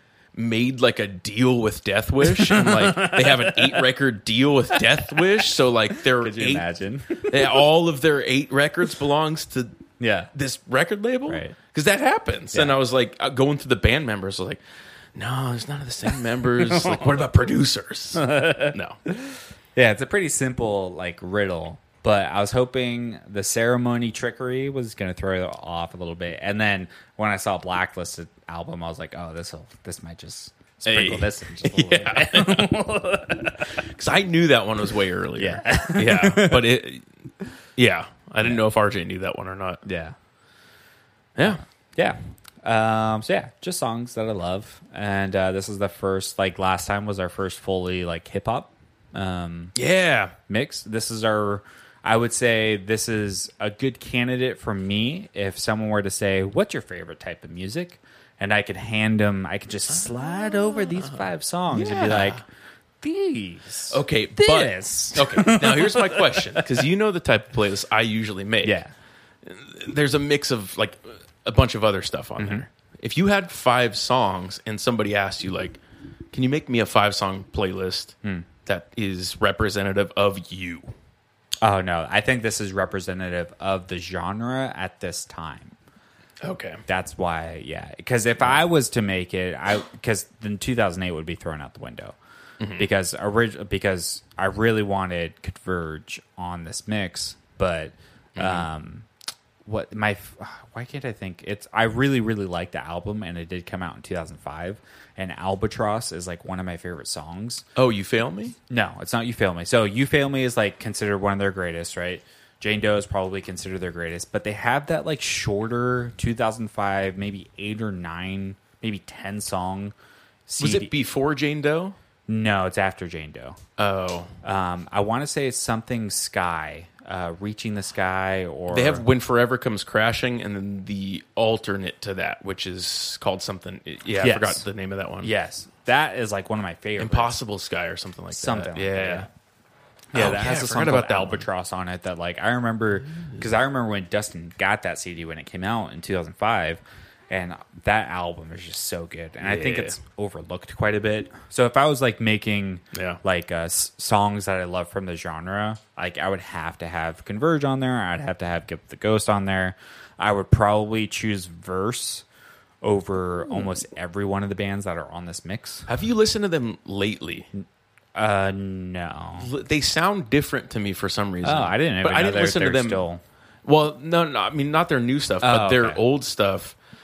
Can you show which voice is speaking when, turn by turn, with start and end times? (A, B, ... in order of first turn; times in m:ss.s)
0:00.3-0:09.8 A
0:02.2-0:03.8 B
0:04.8-0:05.4 B
0:06.1-0:07.6 B
0:10.0-0:10.3 B
0:10.3-0:14.6 A
0:11.3-0:11.6 B
0:15.2-0:19.0 A
0:16.1-0:17.2 B
0:18.1-0:33.8 B
0:30.8-0:32.8 A
0:33.8-0:37.0 A
0:35.4-0:36.6 B
0:37.8-0:39.8 A
0:39.8-0:40.1 B
0:41.4-0:41.6 A
0:41.4-0:49.7 B
0:49.8-0:50.3 A
0:50.5-1:02.4 B
1:00.9-1:02.4 A
1:03.0-1:06.8 B
1:03.9-1:08.8 A
1:08.6-1:08.9 B
1:09.4-1:15.8 A
1:12.4-1:12.6 B
1:16.3-1:20.9 A
1:21.6-1:25.8 B
1:26.4-1:26.8 A
1:26.9-1:32.1 B
1:32.6-1:32.8 A
1:32.8-1:39.1 B
1:38.4-1:38.6 A
1:39.6-1:47.6 B
1:47.8-1:48.6 A
1:48.7-1:59.9 B
2:00.5-2:00.9 B
2:00.6-2:02.0 A
2:02.3-2:03.6 B
2:03.8-2:04.3 A
2:04.4-2:09.0 B
2:08.7-2:15.3 A
2:14.2-2:14.6 B
2:15.2-2:17.4 B
2:17.0-2:19.2 A
2:18.3-2:19.3 B
2:20.1-2:42.2 B
2:20.1-2:21.4 A
2:29.4-2:30.0 A
2:32.9-2:33.2 A
2:42.8-2:45.9 B
2:45.9-2:47.5 A
2:48.2-2:49.5 B
2:49.4-2:53.0 A
2:51.4-2:53.2 B
2:53.6-2:56.8 A
2:55.4-2:56.0 B